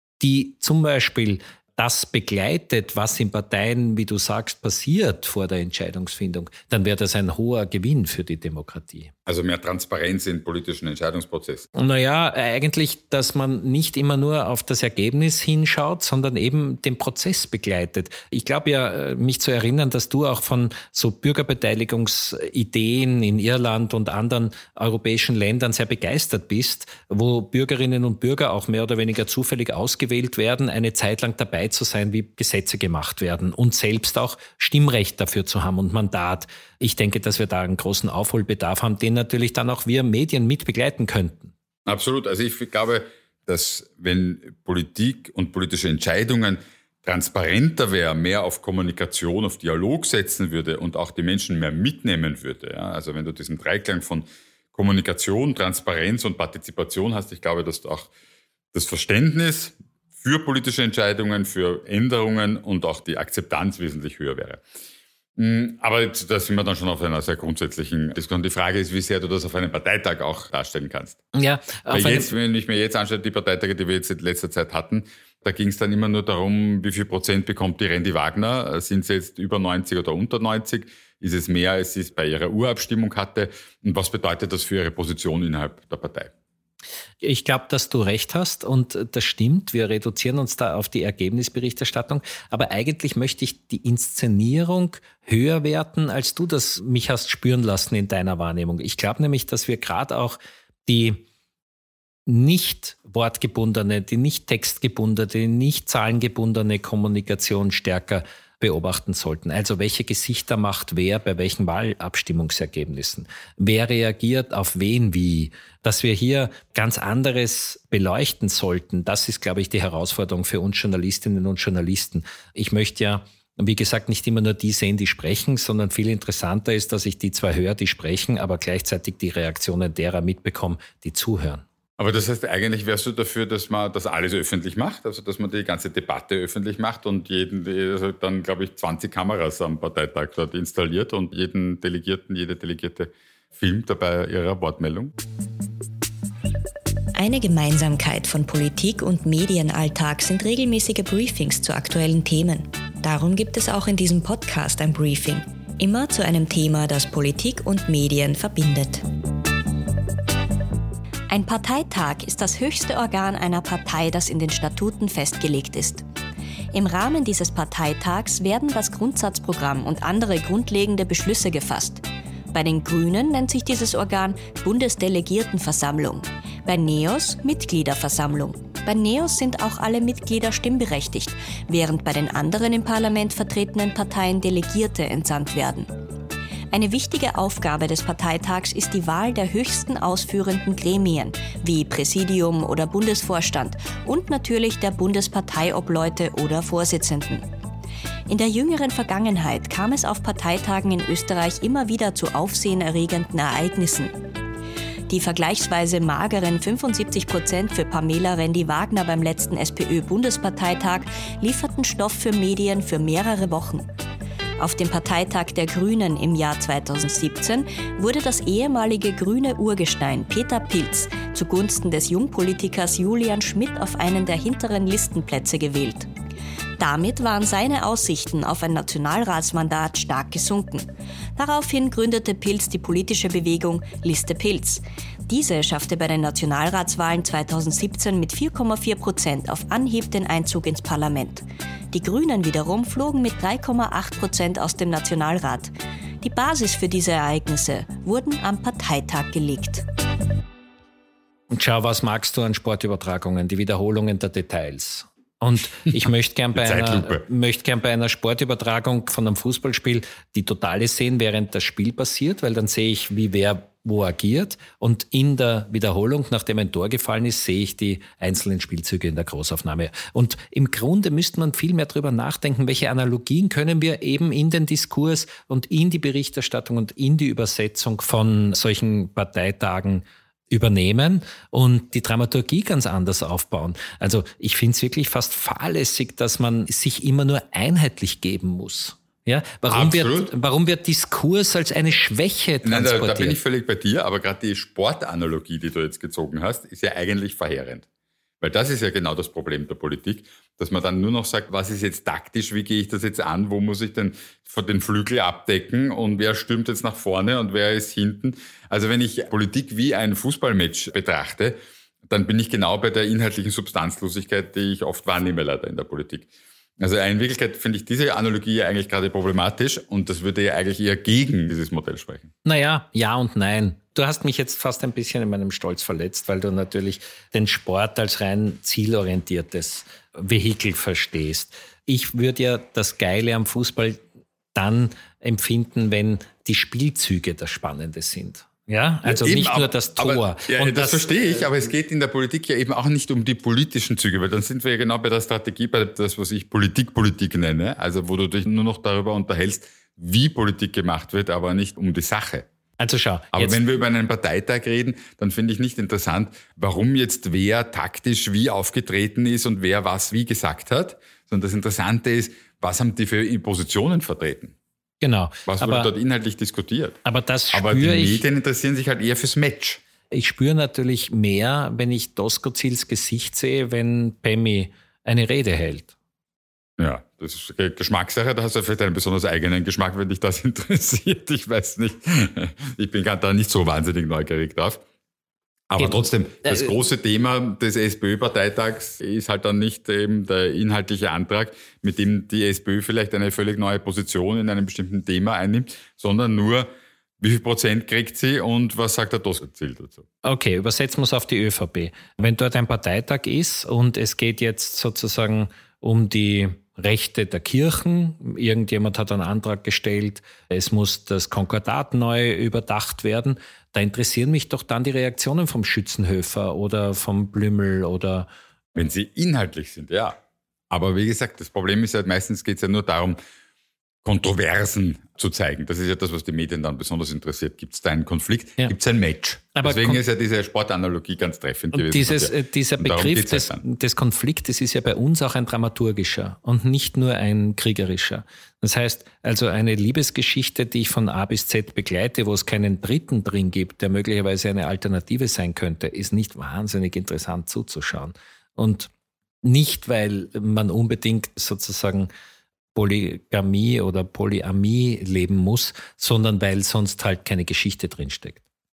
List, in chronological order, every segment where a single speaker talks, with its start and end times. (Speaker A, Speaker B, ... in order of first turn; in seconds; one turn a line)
Speaker A: 0.2-9.1
Speaker B: 9.2-11.7
Speaker A: 11.8-41.5
Speaker B: 41.9-58.1
Speaker B: 58.7-64.6
Speaker B: 65.4-71.2
Speaker A: 71.3-72.3
Speaker B: 71.9-86.3
Speaker A: 87.2-101.2
Speaker A: 102.3-131.6
Speaker B: 132.0-145.1
Speaker C: 147.1-159.0
Speaker C: 161.3-166.0
Speaker C: 166.7-185.9
Speaker C: 186.7-197.4
Speaker C: 198.3-204.1
Speaker C: 205.1-213.9
Speaker C: 214.6-226.1
Speaker C: 226.8-249.8
Speaker A: 251.5-293.4
Speaker B: 256.6-257.2
Speaker B: 289.7-290.3
Speaker B: 292.6-297.9
Speaker B: 298.4-311.6
Speaker B: 312.1-316.3
Speaker B: 316.8-322.3
Speaker A: 322.4-334.0
Speaker A: 334.5-341.1
Speaker B: 339.0-352.4
Speaker A: 352.8-353.6
Speaker B: 353.3-364.5
Speaker A: 365.0-365.9
Speaker B: 365.4-367.0
Speaker A: 367.0-368.2
Speaker B: 367.5-369.8
Speaker A: 370.1-375.9
Speaker B: 376.8-384.8
Speaker B: 385.7-396.7
Speaker A: 385.8-386.7
Speaker B: 397.2-400.0
Speaker A: 400.2-418.3
Speaker B: 418.7-420.1
Speaker B: 420.7-423.2
Speaker B: 424.0-433.6
Speaker A: 429.5-430.0
Speaker A: 431.7-448.9
Speaker A: 449.4-452.1
Speaker A: 452.7-458.4